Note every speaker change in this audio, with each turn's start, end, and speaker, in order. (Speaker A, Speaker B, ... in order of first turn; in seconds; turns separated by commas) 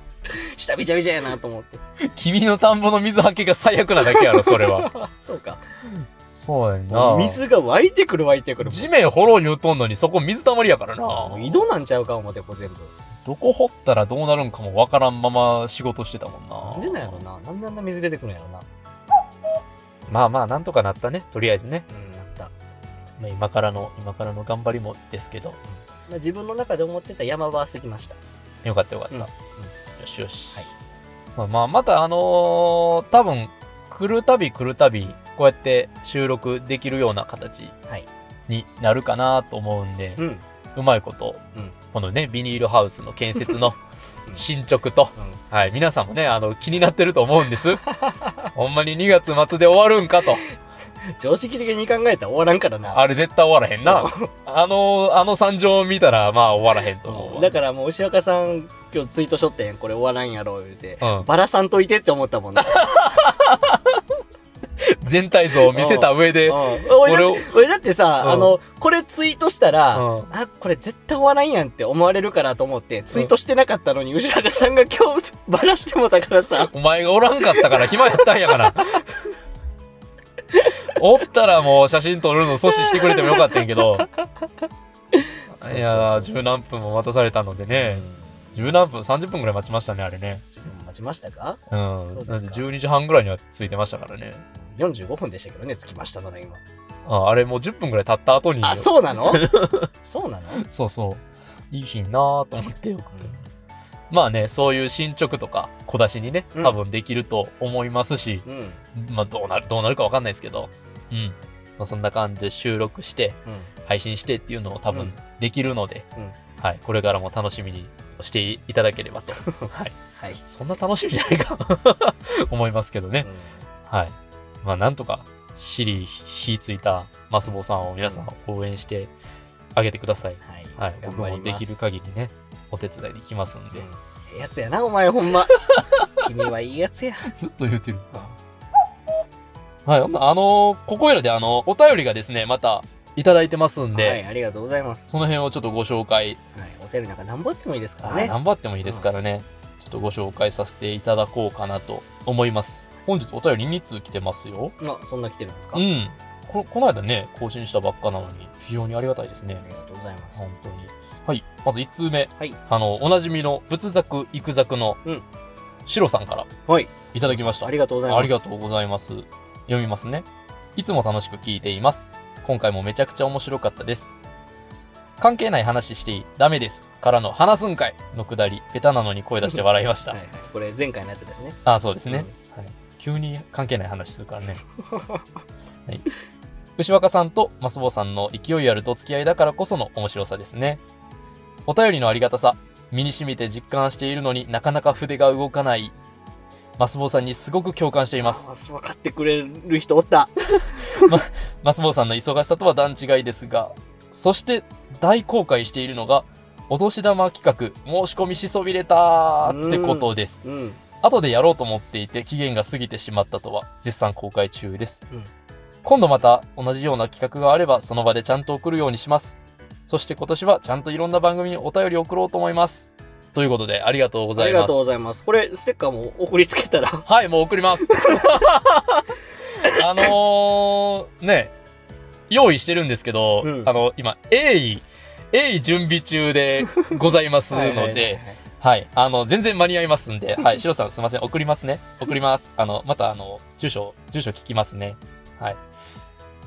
Speaker A: 0.3-1.8, Speaker B: 2.1-4.9, Speaker A: 4.0-5.6, Speaker B: 5.9-7.4, Speaker A: 6.9-8.9, Speaker B: 8.6-11.6, Speaker A: 11.0-12.9, Speaker B: 13.2-17.2, Speaker A: 16.6-18.6, Speaker B: 20.1-21.8, Speaker A: 21.9-22.5, Speaker B: 23.2-25.6, Speaker A: 25.7-28.2, Speaker B: 28.6-29.3, Speaker A: 29.1-29.7, Speaker B: 30.0-30.6, Speaker B: 31.4-37.7, Speaker B: 38.5-40.2, Speaker B: 40.7-41.4, Speaker B: 41.9-43.8, Speaker B: 44.3-47.8, Speaker A: 45.1-45.4, Speaker A: 47.8-48.5, Speaker B: 48.5-50.4, Speaker A: 51.2-53.0, Speaker B: 52.9-57.5, Speaker A: 53.8-54.3, Speaker A: 57.0-62.9, Speaker B: 61.0-61.3, Speaker B: 62.6-64.0, Speaker B: 64.8-67.5, Speaker A: 65.7-76.7, Speaker B: 68.2-68.5, Speaker B: 69.9-70.3, Speaker B: 76.7-79.0, Speaker A: 77.6-77.9, Speaker A: 78.5-78.8, Speaker B: 80.9-84.1, Speaker A: 82.8-83.5, Speaker A: 85.1-86.4, Speaker B: 85.5-90.5, Speaker A: 87.7-88.7, Speaker A: 90.5-92.7, Speaker B: 91.7-94.4, Speaker A: 94.5-96.6, Speaker B: 97.0-99.9, Speaker A: 98.6-99.5, Speaker A: 100.0-100.6, Speaker B: 100.5-103.4, Speaker A: 103.1-103.4, Speaker B: 104.1-108.4, Speaker A: 108.4-108.8, Speaker B: 108.9-116.0, Speaker A: 114.9-115.2, Speaker B: 116.6-123.3, Speaker A: 119.4-120.4, Speaker A: 123.2-123.6, Speaker B: 123.9-129.1, Speaker B: 129.7-133.8, Speaker A: 130.4-131.8, Speaker A: 133.7-137.3, Speaker B: 135.7-136.1, Speaker B: 137.3-138.1, Speaker A: 138.1-138.4, Speaker B: 139.8-144.2, Speaker A: 143.9-145.1, Speaker B: 145.1-146.4, Speaker A: 146.5-149.1, Speaker B: 148.0-154.7, Speaker A: 154.8-155.8, Speaker B: 155.7-159.6, Speaker A: 159.6-160.4, Speaker B: 160.3-165.0, Speaker B: 165.8-166.5, Speaker A: 166.7-168.4, Speaker B: 167.1-174.1, Speaker B: 175.2-180.2, Speaker A: 180.1-182.3, Speaker B: 181.7-184.6, Speaker A: 184.8-185.2, Speaker B: 186.8-190.8, Speaker B: 191.7-195.9, Speaker B: 196.8-198.4, Speaker A: 198.2-201.1, Speaker B: 200.9-210.4, Speaker A: 209.4-210.8, Speaker B: 211.0-215.0, Speaker B: 215.8-224.7, Speaker A: 224.3-227.1, Speaker B: 227.1-229.1, Speaker A: 227.9-228.2, Speaker B: 229.6-231.5, Speaker B: 232.3-245.6, Speaker A: 233.4-233.7, Speaker A: 237.5-238.4